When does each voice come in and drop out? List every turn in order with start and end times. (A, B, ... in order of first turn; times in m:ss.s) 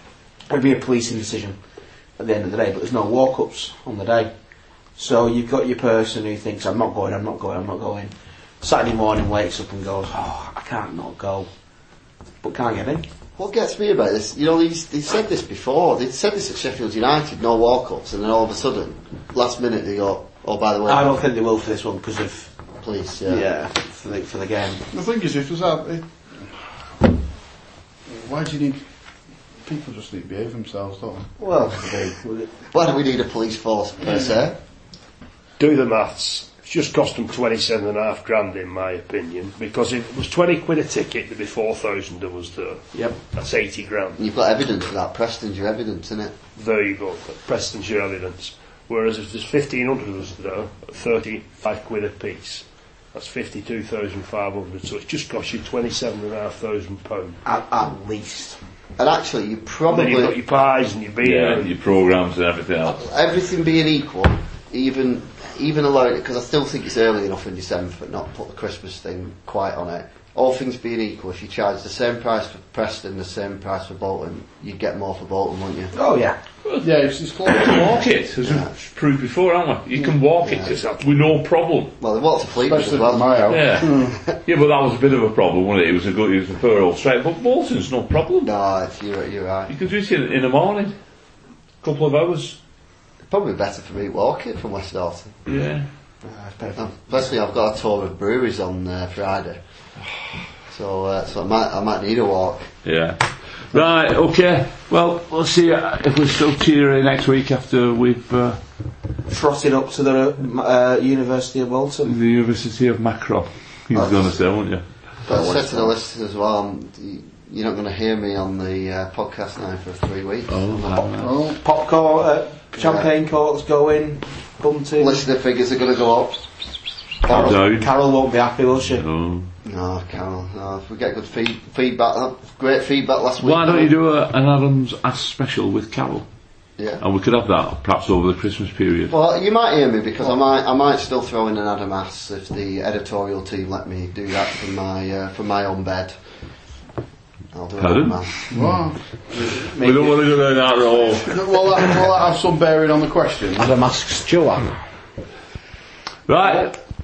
0:00.5-0:01.6 A
0:02.2-0:04.3 A
0:05.0-0:11.5 A
0:12.4-0:13.1 A
0:13.4-0:21.2 B
0:20.9-0:22.5 A
0:22.8-0:23.5 B
0:23.3-0:24.9 A
0:24.9-0:27.1 C
0:28.1-0:28.8 C
0:29.6-0:31.3 C
0:31.4-0:32.5 A
0:32.7-0:34.6 B
0:35.6-0:44.2 D
0:44.2-0:46.4 B
0:46.6-0:57.4 D
0:57.4-0:58.6 A
0:59.0-1:00.4 B
0:59.9-1:01.8 D
1:01.2-1:03.0 E
1:02.9-1:15.9 B
1:15.9-1:16.4 A
1:16.8-1:18.0 C
1:17.4-1:22.0 E
1:18.4-1:18.7 B
1:20.4-1:20.7 B
1:20.5-1:20.9 D
1:22.0-1:24.2 B
1:22.6-1:24.2 C
1:23.5-1:28.5 E
1:28.4-1:29.7 B
1:29.7-1:30.9 E
1:31.8-1:32.6 E
1:33.3-1:35.4 B
1:35.5-1:35.9 E
1:36.2-1:37.0 A
1:36.8-1:39.6 B
1:40.7-1:42.7 B
1:42.8-1:48.6 E
1:49.3-1:52.2 A
1:52.0-1:54.8 E
1:53.9-1:54.4 B
1:55.2-2:01.1 B
1:55.3-1:55.9 A
2:00.5-2:01.3 E
2:01.0-2:05.2 A
2:01.2-2:01.6 C
2:02.8-2:03.1 B
2:05.0-2:06.4 B
2:07.2-2:07.6 B
2:07.3-2:07.9 E
2:07.3-2:09.0 A
2:08.9-2:09.5 E
2:09.6-2:13.9 B
2:13.4-2:16.3 E
2:17.0-2:19.1 E
2:19.1-2:26.2 B
2:27.5-2:28.3 B
2:27.8-2:28.6 E
2:28.5-2:29.0 C
2:29.3-2:30.3 A
2:29.6-2:31.4 E
2:31.2-2:33.7 C
2:33.6-2:34.8 A
2:36.3-2:36.8 E